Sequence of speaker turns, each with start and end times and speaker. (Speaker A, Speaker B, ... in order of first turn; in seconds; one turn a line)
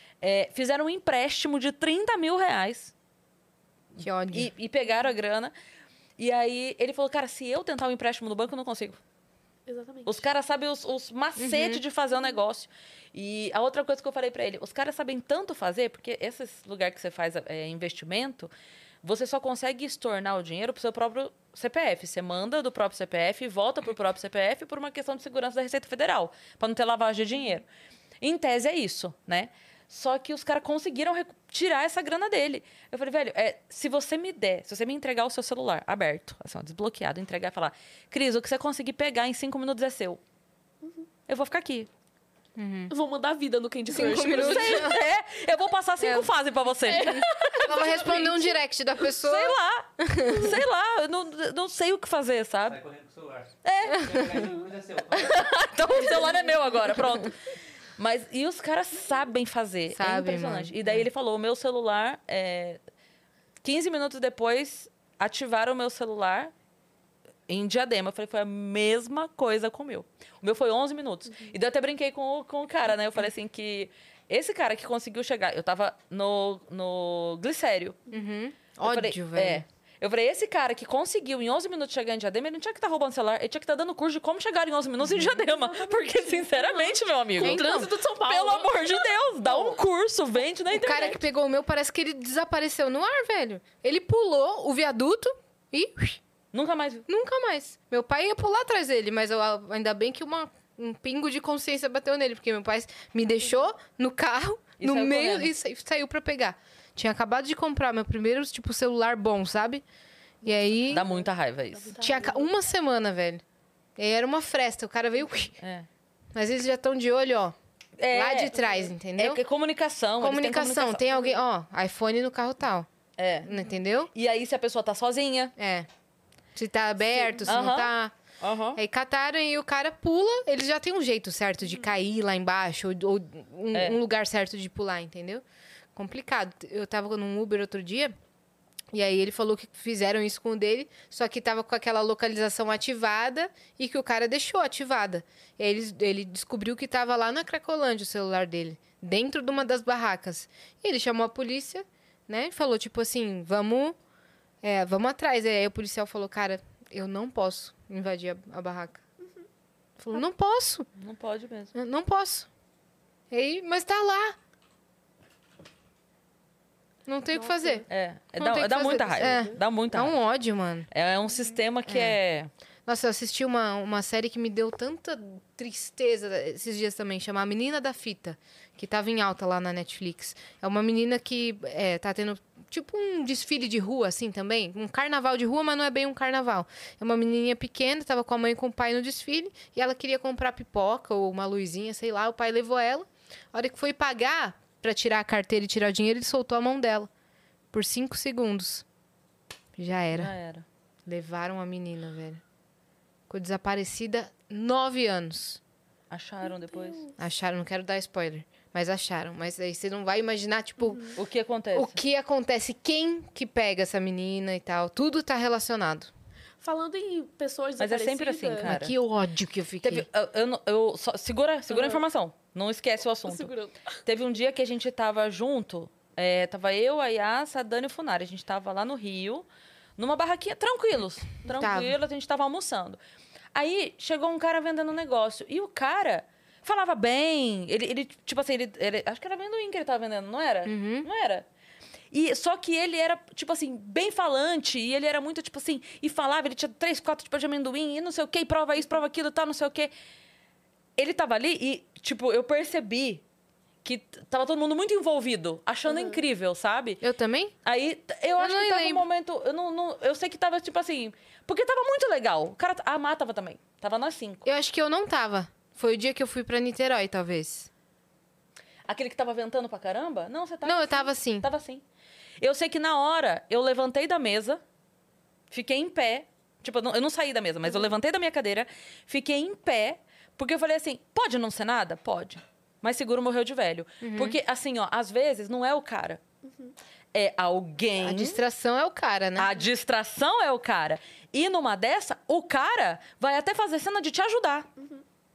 Speaker A: 0.2-2.9
Speaker B: 4.0-4.5
Speaker A: 4.3-5.5
Speaker A: 6.2-9.0
Speaker C: 9.7-10.2
Speaker A: 10.1-18.5
Speaker B: 11.4-11.8
Speaker A: 19.0-27.6
Speaker A: 28.2-40.2
Speaker A: 41.3-41.9
Speaker B: 42.5-42.9
Speaker C: 42.9-44.9
Speaker B: 43.9-45.0
Speaker A: 43.9-47.5
Speaker B: 46.0-46.3
Speaker C: 46.9-48.6
Speaker B: 46.9-50.6
Speaker A: 49.2-52.8
Speaker D: 52.6-55.6
Speaker A: 53.6-54.4
Speaker A: 55.1-57.3
Speaker A: 58.0-62.8
Speaker B: 59.9-61.1
Speaker A: 63.6-66.5
Speaker A: 67.5-78.0
Speaker B: 78.1-79.6
Speaker A: 78.8-91.2
Speaker C: 85.1-89.8
Speaker B: 87.4-87.9
Speaker B: 90.7-96.2
Speaker A: 96.5-97.0
Speaker B: 97.1-109.8
Speaker A: 104.8-105.5
Speaker B: 110.4-111.1
Speaker C: 110.4-112.5
Speaker A: 110.9-112.0
Speaker B: 112.0-113.4
Speaker B: 114.0-115.5
Speaker A: 115.6-115.9
Speaker B: 116.3-117.5
Speaker A: 118.0-118.6
Speaker B: 118.1-119.4
Speaker A: 119.2-121.1
Speaker B: 120.2-122.9
Speaker A: 123.2-123.5
Speaker B: 123.4-124.1
Speaker A: 124.1-125.5
Speaker B: 125.6-125.9
Speaker B: 126.5-128.1
Speaker A: 127.4-128.8
Speaker B: 128.7-135.4
Speaker A: 133.7-134.0
Speaker B: 135.9-138.1
Speaker B: 138.9-153.9
Speaker B: 154.6-159.0
Speaker B: 160.0-160.9
Speaker A: 161.0-161.7
Speaker B: 161.7-162.5
Speaker B: 163.3-164.3
Speaker B: 167.1-167.8
Speaker C: 167.3-167.8
Speaker A: 167.9-170.2
Speaker B: 168.4-170.9
Speaker C: 169.0-169.6
Speaker A: 170.9-172.5
Speaker B: 171.8-172.2
Speaker B: 172.8-197.1
Speaker B: 197.7-198.8
Speaker B: 199.8-200.3
Speaker A: 200.1-200.6
Speaker B: 201.1-202.4
Speaker B: 203.3-205.6
Speaker A: 206.1-207.0
Speaker C: 206.5-207.1
Speaker B: 207.2-211.2
Speaker C: 210.8-211.2
Speaker A: 211.2-212.0
Speaker B: 211.7-216.1
Speaker C: 216.6-218.7
Speaker A: 217.8-218.9
Speaker B: 218.6-220.1
Speaker A: 219.8-223.5
Speaker C: 221.7-222.0
Speaker C: 223.3-223.8
Speaker A: 224.1-229.4
Speaker A: 230.0-233.0
Speaker B: 231.5-231.9
Speaker A: 233.5-241.4
Speaker B: 240.7-241.1
Speaker A: 242.1-249.9
Speaker A: 251.0-253.2
Speaker A: 253.8-257.0
Speaker C: 255.9-256.2
Speaker B: 257.0-257.5
Speaker A: 257.6-264.4
Speaker B: 258.4-259.0
Speaker B: 264.4-267.7
Speaker A: 268.9-271.8
Speaker B: 270.6-271.4
Speaker A: 272.4-274.6
Speaker A: 275.5-286.2
Speaker B: 284.0-284.4
Speaker C: 286.4-286.7
Speaker A: 287.1-288.4
Speaker B: 288.0-289.5
Speaker A: 289.4-294.7
Speaker C: 294.8-295.0